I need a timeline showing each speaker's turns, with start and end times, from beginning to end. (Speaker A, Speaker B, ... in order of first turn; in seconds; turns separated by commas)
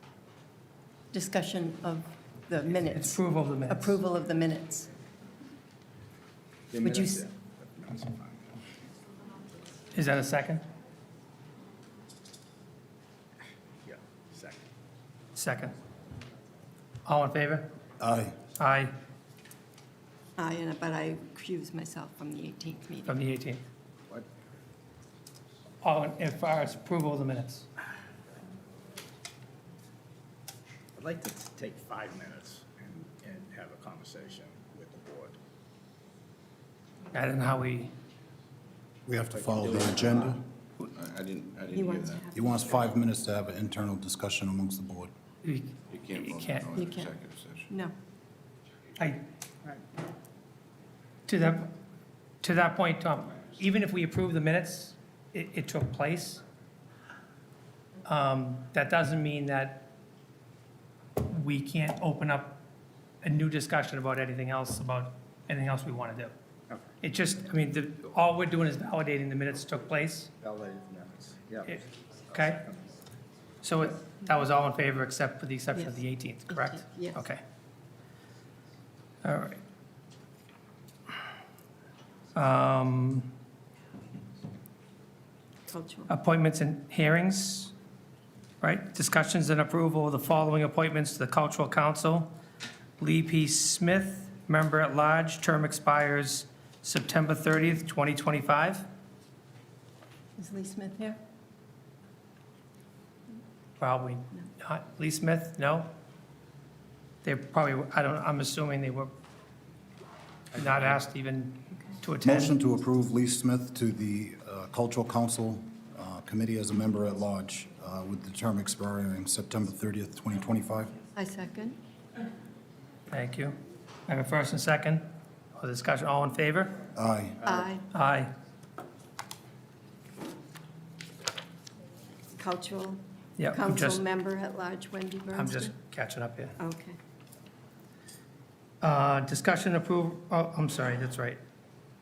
Speaker A: 1.1-4.9, Speaker B: 2.9-4.0, Speaker C: 6.7-8.5, Speaker A: 6.8-7.2, Speaker B: 9.9-10.6, Speaker C: 13.8-14.6, Speaker B: 15.3-15.8, Speaker B: 17.1-17.7, Speaker D: 18.0-18.4, Speaker B: 18.6-18.9, Speaker A: 20.4-23.2, Speaker B: 23.1-23.6, Speaker B: 25.8-27.7, Speaker C: 31.0-35.4, Speaker B: 37.1-37.9, Speaker D: 39.1-40.4, Speaker C: 39.4-40.4, Speaker E: 40.8-42.3, Speaker A: 41.7-42.8, Speaker D: 42.3-45.1, Speaker B: 45.4-46.7, Speaker E: 45.9-47.7, Speaker A: 46.8-47.1, Speaker B: 49.0-49.2, Speaker B: 51.3-51.8, Speaker B: 52.4-56.4, Speaker B: 58.1-59.9, Speaker B: 61.2-62.6, Speaker B: 63.2-66.3, Speaker B: 67.0-70.3, Speaker C: 70.4-71.8, Speaker B: 72.3-72.6, Speaker B: 73.6-77.4, Speaker A: 76.5-77.2, Speaker B: 79.2-79.6, Speaker B: 82.3-83.3, Speaker A: 85.7-86.1, Speaker B: 86.1-87.7, Speaker B: 88.6-92.3, Speaker B: 93.0-98.9, Speaker A: 100.4-101.2, Speaker B: 103.8-105.9, Speaker B: 107.2-109.1, Speaker B: 110.5-112.5, Speaker D: 112.2-121.0, Speaker A: 121.2-121.8, Speaker B: 123.1-123.6, Speaker B: 124.1-126.8, Speaker D: 127.0-127.5, Speaker A: 127.4-127.9, Speaker B: 127.9-128.3, Speaker A: 132.4-135.7, Speaker B: 133.4-134.0, Speaker B: 135.3-136.6, Speaker A: 136.6-137.0, Speaker B: 138.8-141.4